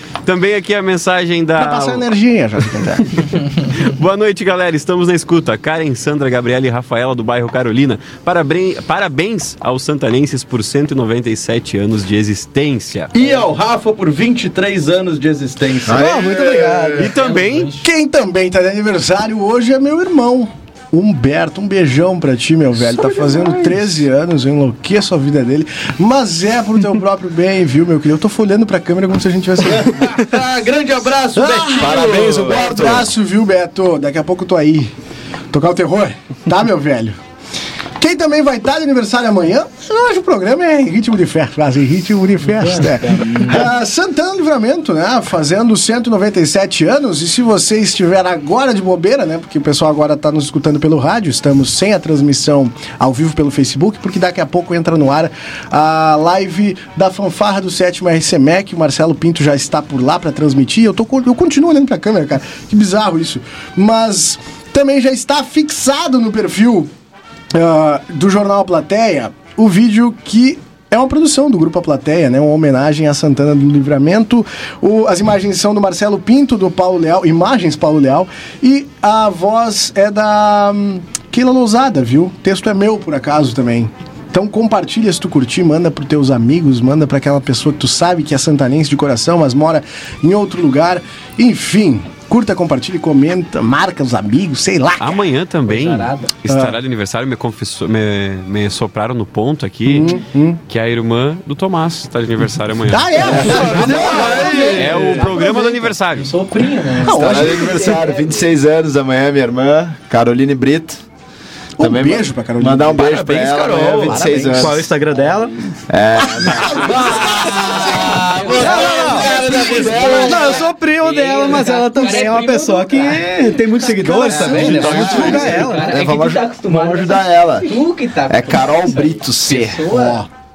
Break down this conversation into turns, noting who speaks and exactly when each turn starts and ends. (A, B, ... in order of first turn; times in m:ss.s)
0:00.2-0:02.0 A
0:01.6-0:03.3 B
0:03.7-0:13.1 A
0:13.1-0:17.1 C
0:15.9-0:17.1 D
0:16.2-0:16.7 E
0:17.0-0:17.7 A
0:17.1-0:17.9 F
0:17.8-0:30.1 B
0:30.0-0:32.9 C
0:31.4-0:34.9 B
0:31.7-0:33.1 E
0:35.5-0:37.2 B
0:38.0-1:06.9 B
0:42.4-0:43.7 F
1:07.5-1:35.2 B
1:35.0-1:40.1 A
1:35.7-1:36.3 F
1:36.5-1:36.8 B
1:39.8-1:40.6 B
1:40.7-1:43.5 A
1:42.9-1:45.9 B
1:43.3-1:44.7 E
1:43.4-1:45.5 F
1:43.4-1:45.3 C
1:44.7-1:46.3 A
1:46.2-1:48.4 F
1:47.0-1:48.0 B
1:47.1-1:51.0 E
1:51.8-1:53.0 B
1:51.8-1:54.8 E
1:52.9-1:54.8 C
1:54.3-1:55.5 D
1:55.9-2:00.6 E
1:56.2-1:58.3 B
1:57.2-2:00.6 C
1:57.8-2:10.2 F
1:58.6-1:59.3 D
1:59.0-1:59.8 B
2:00.1-2:05.9 D
2:04.3-2:05.4 B
2:04.5-2:05.4 A
2:04.9-2:07.7 E
2:08.3-2:09.8 E
2:09.9-2:10.3 B